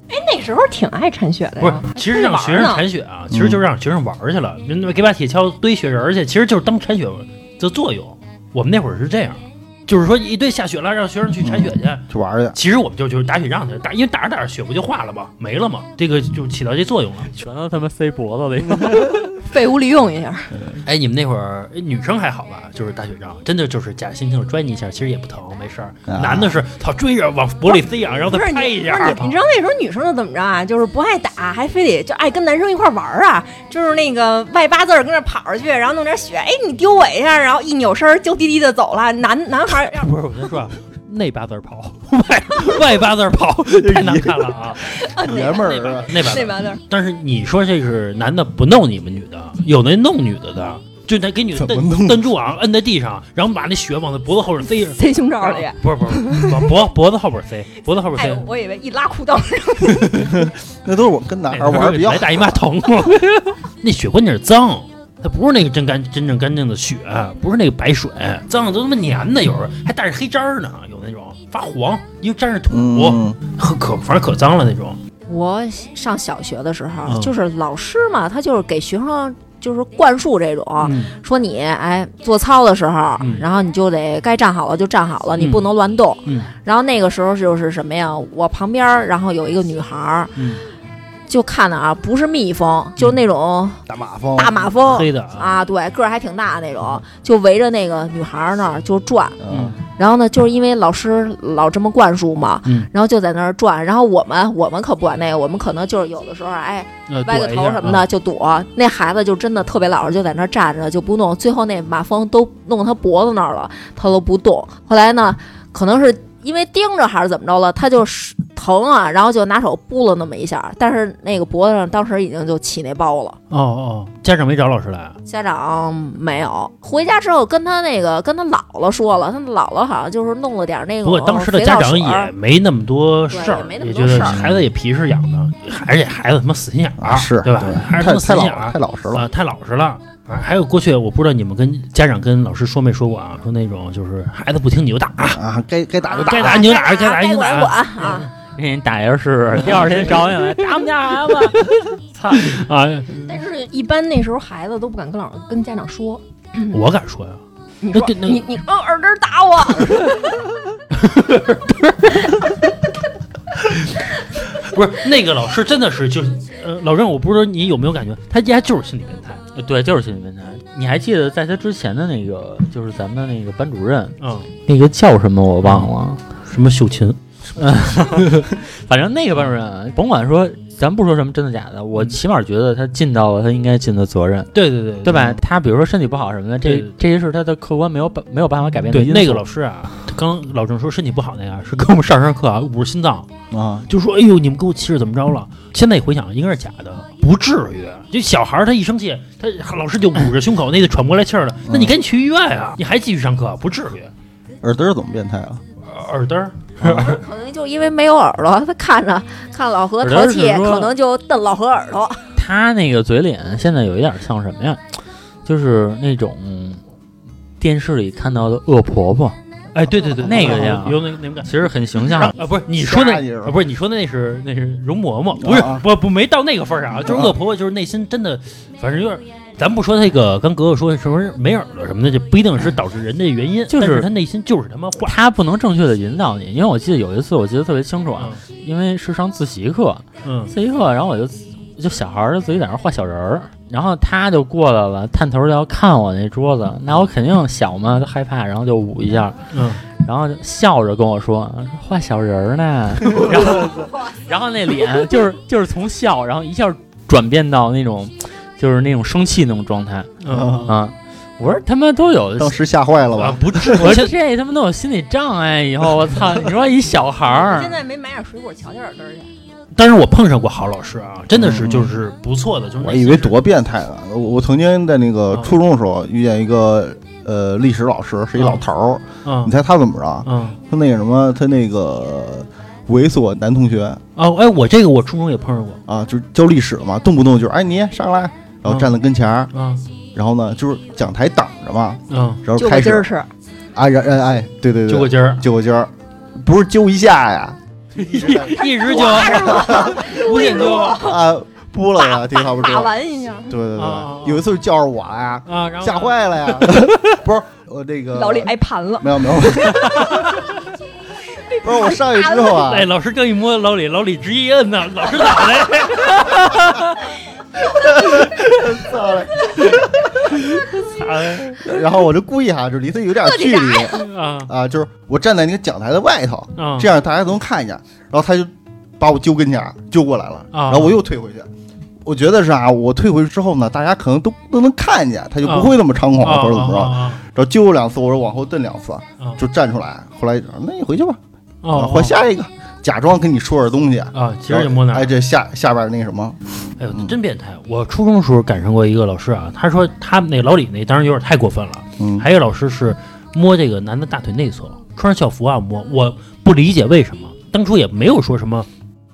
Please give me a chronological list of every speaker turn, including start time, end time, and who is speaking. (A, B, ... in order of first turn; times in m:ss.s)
0:00.1-0:02.8 A
0:01.6-0:17.3 B
0:03.3-0:03.6 C
0:11.4-0:12.6 C
0:17.3-0:19.4 D
0:19.4-0:20.5 A
0:20.8-0:29.4 B
0:26.1-0:26.6 C
0:27.7-0:40.1 A
0:39.8-0:58.4 B
0:43.7-0:44.6 C
0:44.8-0:46.8 A
0:45.2-0:46.4 C
0:51.6-0:52.2 C
0:55.0-0:56.6 A
0:58.1-1:00.4 A
1:00.1-1:02.6 C
1:01.5-1:15.0 B
1:12.7-1:13.4 C
1:15.3-1:30.5 E
1:17.0-1:17.3 B
1:20.8-1:21.1 B
1:23.2-1:23.4 B
1:25.4-1:25.7 B
1:26.2-1:26.5 B
1:31.3-1:33.8 E
1:33.9-1:34.8 C
1:34.3-1:39.4 E
1:34.9-1:35.6 B
1:39.4-1:39.8 C
1:39.5-1:39.8 B
1:40.0-2:03.4 E
1:47.1-1:48.1 B
2:03.5-2:05.2 B
2:05.2-2:12.3 E
2:11.0-2:25.4 B
2:13.3-2:14.4 E
2:17.0-2:19.2 C
2:25.2-2:26.7 C
2:26.1-2:28.3 E
2:26.1-2:28.3 B
2:28.4-2:32.6 D
2:29.6-2:30.3 B
2:32.3-2:33.1 B
2:33.2-2:36.8 A
2:36.7-2:37.4 B
2:37.8-2:40.4 A
2:37.9-2:38.5 B
2:40.9-2:42.5 B
2:43.6-2:49.4 B
2:49.5-2:56.2 D
2:54.2-2:54.5 B
2:55.6-2:55.9 B
2:56.4-2:57.2 B
2:57.6-3:04.5 D
3:04.5-3:05.3 B
3:05.0-3:09.4 D
3:05.1-3:05.4 C
3:06.6-3:06.9 B
3:08.9-3:13.3 B
3:13.5-3:13.8 C
3:13.9-3:24.1 B
3:21.7-3:21.9 C
3:24.6-3:25.6 C
3:25.8-3:27.2 B
3:26.8-3:32.2 E
3:30.0-3:30.9 D
3:32.3-3:34.8 D
3:35.4-3:36.8 D
3:37.6-3:39.4 D
3:39.7-3:55.2 B
3:40.2-3:42.3 D
3:40.3-3:40.8 C
3:42.7-3:43.5 C
3:45.4-3:45.8 C
3:47.0-3:47.4 C
3:53.7-3:54.1 D
3:55.0-4:09.4 D
3:58.2-3:58.4 B
4:00.2-4:00.5 B
4:09.5-4:09.8 B
4:10.0-4:20.1 D
4:20.2-4:20.7 B
4:20.3-4:20.7 C
4:20.6-4:22.6 D
4:22.4-4:24.0 C
4:23.1-4:24.1 B
4:23.7-4:27.8 D
4:27.3-4:29.3 A
4:29.7-4:33.4 B
4:31.3-4:31.9 C
4:32.8-4:44.0 C
4:38.4-4:38.6 B
4:39.2-4:39.5 B
4:40.2-4:40.6 B
4:44.2-4:45.8 B
4:45.9-4:49.5 C
4:48.6-4:48.9 B
4:49.5-4:49.8 B
4:50.1-4:53.1 C
4:52.1-4:52.4 B
4:52.6-4:53.3 A
4:53.7-5:02.9 C
4:54.9-4:55.4 B
4:58.0-5:01.1 B
4:58.4-5:01.2 A
5:02.0-5:03.6 A
5:03.5-5:10.3 C
5:03.8-5:04.5 B
5:05.5-5:07.2 B
5:08.1-5:09.2 A
5:09.7-5:10.5 B
5:11.5-5:12.6 A
5:11.6-5:12.9 C
5:12.6-5:17.0 B
5:17.7-5:20.7 C
5:20.8-5:21.7 B
5:21.6-5:31.5 C
5:23.2-5:24.0 A
5:23.9-5:24.5 B
5:26.6-5:26.9 B
5:30.5-5:31.0 B
5:32.0-5:41.2 C
5:35.4-5:37.2 B
5:41.6-5:42.2 B
5:41.7-5:46.4 C
5:44.1-5:45.1 B
5:46.8-5:58.7 B
5:52.0-5:52.2 C